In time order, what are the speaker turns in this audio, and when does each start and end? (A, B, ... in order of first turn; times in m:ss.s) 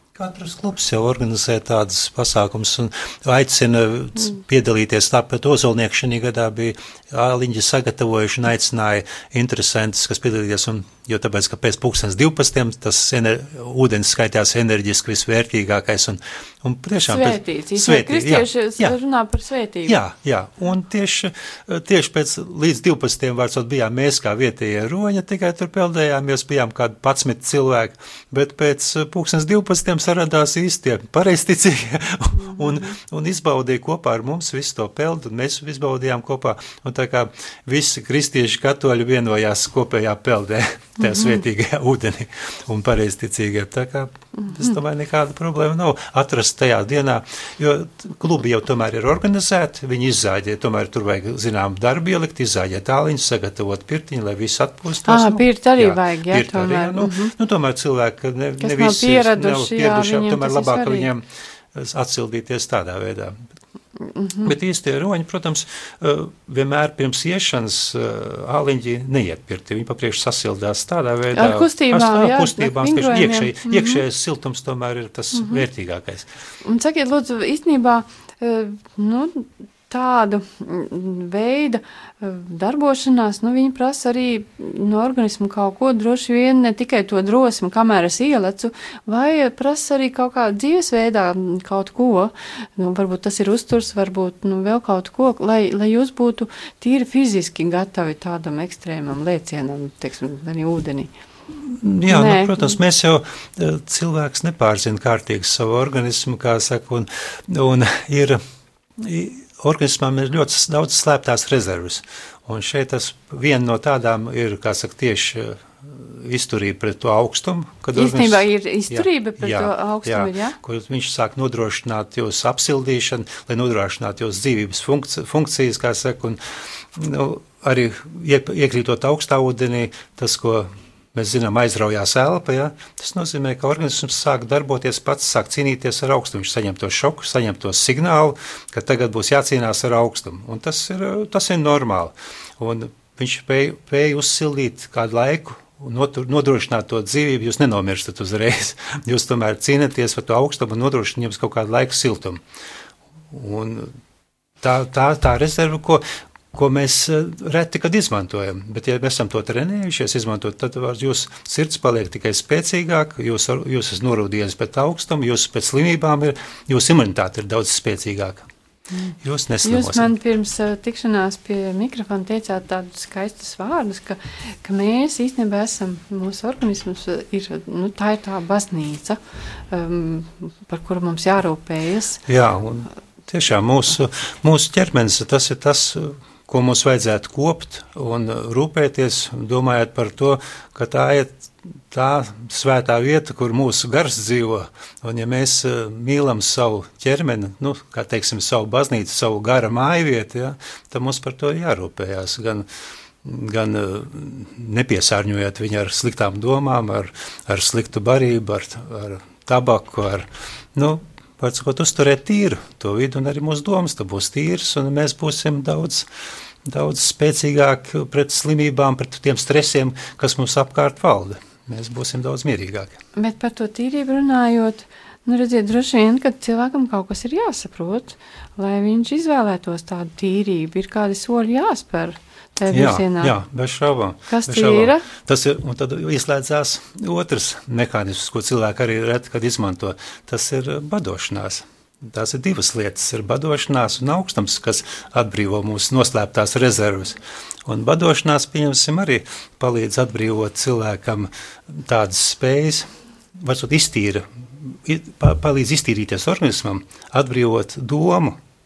0:00.2-0:19.0 A
0:17.0-0:20.0 B
0:19.8-1:03.4 A
0:32.4-0:33.0 B
0:41.0-0:41.4 B
0:44.4-0:44.7 B
0:55.0-0:57.3 B
0:58.6-1:01.1 B
1:04.1-1:04.5 B
1:04.4-1:16.3 A
1:11.3-1:14.0 B
1:15.3-1:15.6 B
1:16.6-1:41.1 B
1:41.6-1:48.4 A
1:42.1-1:42.8 B
1:49.0-2:06.4 A
1:57.9-2:00.6 B
2:06.9-2:32.4 A
2:33.3-2:33.9 A
2:34.6-2:48.5 A
2:48.9-3:02.2 B
2:49.2-2:50.1 A
3:02.3-3:22.6 A
3:23.2-3:36.1 A
3:36.6-3:43.0 A
3:43.2-3:53.3 B
3:52.7-4:18.4 A
3:54.3-3:55.0 B